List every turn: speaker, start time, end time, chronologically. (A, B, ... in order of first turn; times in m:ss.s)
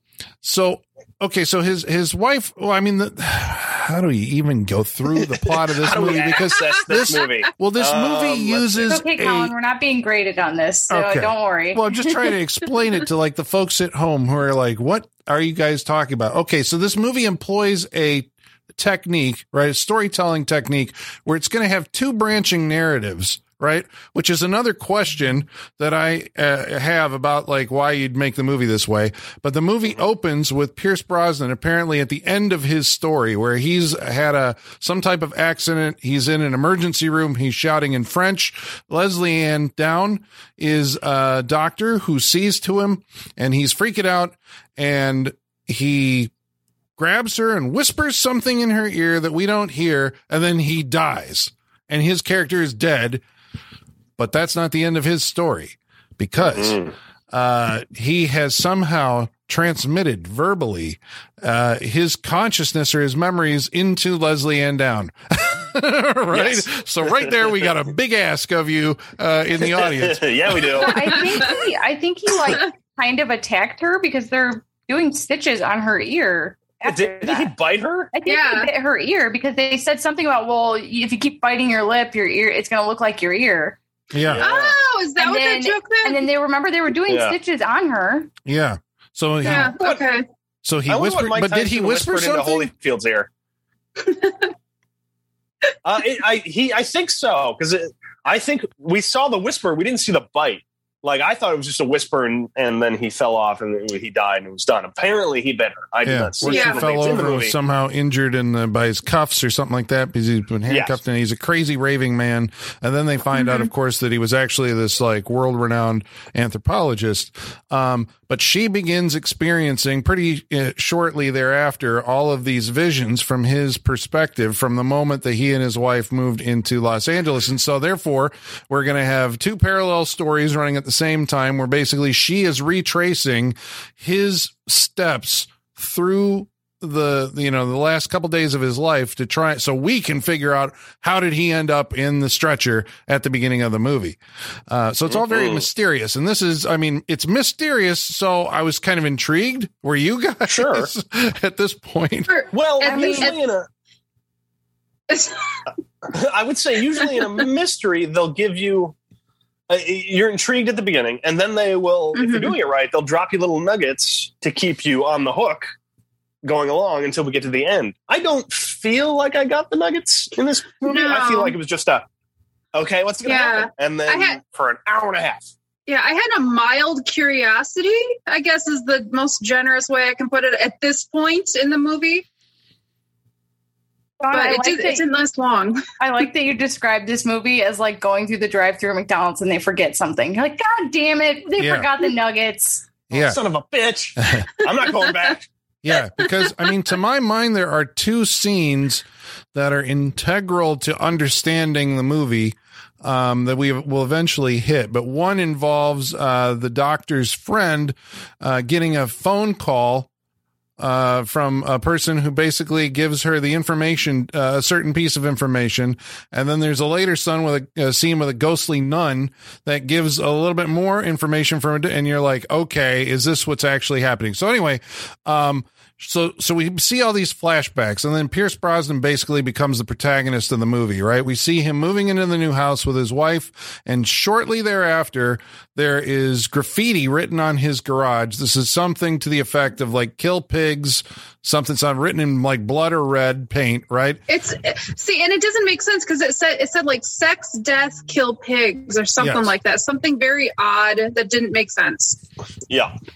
0:00.4-0:09.5 A
0:05.4-0:09.0 B
0:08.9-0:12.0 C
0:10.9-0:46.3 A
0:47.0-0:53.2 A
0:54.2-0:56.7 A
0:56.4-0:56.9 B
0:57.3-1:10.8 A
1:06.3-1:07.7 B
1:09.6-1:11.2 B
1:10.8-1:17.5 C
1:16.8-1:18.1 B
1:18.1-1:23.8 C
1:18.2-1:18.7 D
1:24.1-1:24.4 A
1:24.1-1:24.7 B
1:24.4-1:26.2 D
1:25.2-1:28.3 C
1:27.1-1:27.4 B
1:28.4-1:29.8 A
1:29.4-1:30.2 D
1:30.6-1:32.7 A
1:30.9-1:33.3 B
1:34.0-1:34.4 D
1:35.8-1:47.5 B
1:46.0-2:24.2 A
1:46.4-1:47.1 D
1:50.7-1:51.0 B
1:53.3-1:53.7 D
2:24.7-2:32.3 A
2:25.1-2:25.6 B
2:30.5-2:30.9 B
2:32.3-2:33.4 D
2:32.5-2:33.7 B
2:32.8-2:33.2 C
2:35.1-2:35.4 D
2:36.0-2:39.0 B
2:39.7-2:45.7 B
2:42.1-2:42.6 D
2:46.4-2:52.0 B
2:50.8-2:51.5 D
2:52.7-2:55.5 B
2:53.2-2:54.4 D
2:55.9-3:02.2 D
3:04.2-3:05.0 C
3:04.3-3:05.8 D
3:06.0-3:12.9 C
3:11.6-3:11.9 A
3:13.1-3:13.4 A
3:13.1-3:15.5 B
3:14.2-3:14.5 A
3:15.8-3:30.1 A
3:30.8-4:04.2 A
4:04.3-4:12.2 D
4:09.2-4:09.6 A